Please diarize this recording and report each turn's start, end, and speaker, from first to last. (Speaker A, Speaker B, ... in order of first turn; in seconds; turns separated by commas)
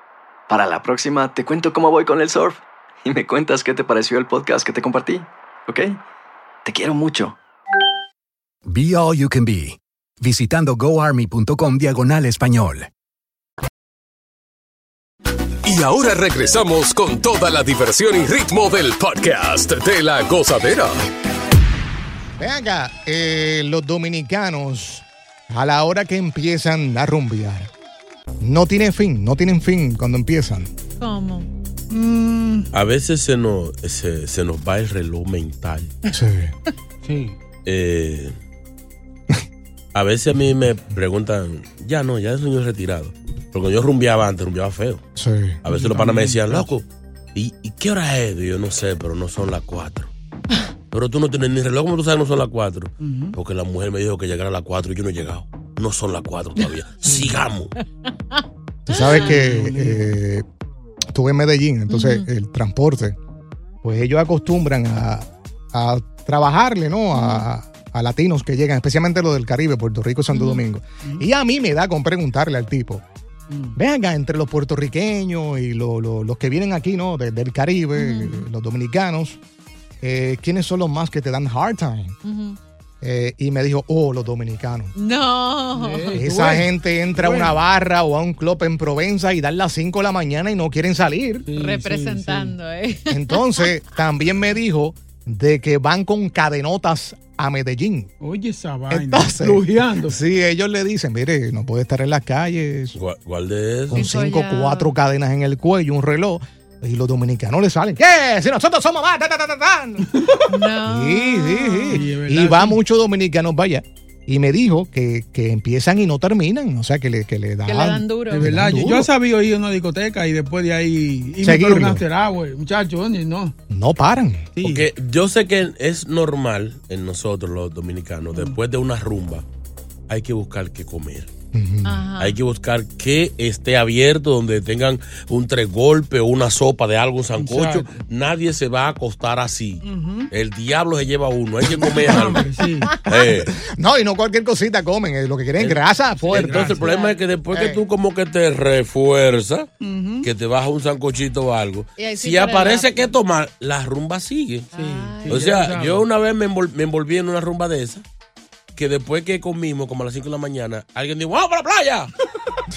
Speaker A: 0.5-6.0, Speaker A: 6.7-7.4, Speaker B: 8.7-12.9, Speaker C: 15.6-21.0, Speaker D: 22.4-27.7, Speaker D: 28.4-30.7, Speaker E: 31.0-31.5, Speaker F: 31.9-32.7, Speaker G: 32.7-36.0, Speaker D: 36.1-36.5, Speaker F: 37.0-37.4, Speaker G: 37.6-38.4, Speaker G: 39.9-45.0, Speaker D: 45.2-45.6, Speaker G: 45.6-50.1, Speaker F: 45.7-46.7, Speaker G: 50.9-57.7, Speaker F: 53.0-53.4, Speaker D: 58.9-60.5, Speaker E: 58.9-59.4, Speaker F: 59.1-60.0, Speaker D: 61.1-63.2, Speaker E: 61.9-62.3, Speaker D: 63.8-73.0, Speaker E: 67.1-67.5, Speaker E: 70.3-70.6, Speaker F: 73.5-73.8, Speaker D: 73.8-79.4, Speaker E: 78.0-78.5, Speaker D: 80.0-82.2, Speaker E: 82.2-82.6, Speaker D: 83.0-84.9, Speaker E: 85.0-86.3, Speaker F: 85.8-87.5, Speaker D: 86.1-91.5, Speaker F: 91.5-92.5, Speaker E: 91.5-93.8, Speaker D: 93.1-98.1, Speaker F: 98.2-100.2, Speaker D: 98.9-103.0, Speaker G: 103.0-104.0, Speaker D: 103.9-110.1, Speaker E: 103.9-104.9, Speaker F: 110.1-110.5, Speaker E: 110.5-112.1, Speaker D: 110.8-119.1, Speaker F: 111.9-112.8, Speaker E: 117.7-118.5, Speaker F: 118.3-123.5, Speaker D: 121.4-122.0, Speaker D: 123.7-124.5, Speaker F: 124.5-124.9, Speaker G: 124.6-129.4, Speaker G: 130.1-131.3, Speaker D: 131.5-132.1, Speaker E: 131.8-132.4, Speaker G: 132.2-142.4, Speaker F: 137.4-138.0, Speaker F: 139.8-140.3, Speaker F: 141.8-142.9, Speaker G: 143.1-143.5, Speaker D: 143.5-146.8, Speaker G: 145.6-149.7, Speaker F: 146.3-147.0, Speaker E: 146.8-147.2, Speaker D: 147.5-147.8, Speaker F: 149.8-150.3, Speaker G: 150.2-154.7, Speaker E: 152.0-153.1, Speaker E: 154.7-155.6, Speaker F: 154.8-156.0, Speaker G: 155.3-158.0, Speaker G: 158.8-162.1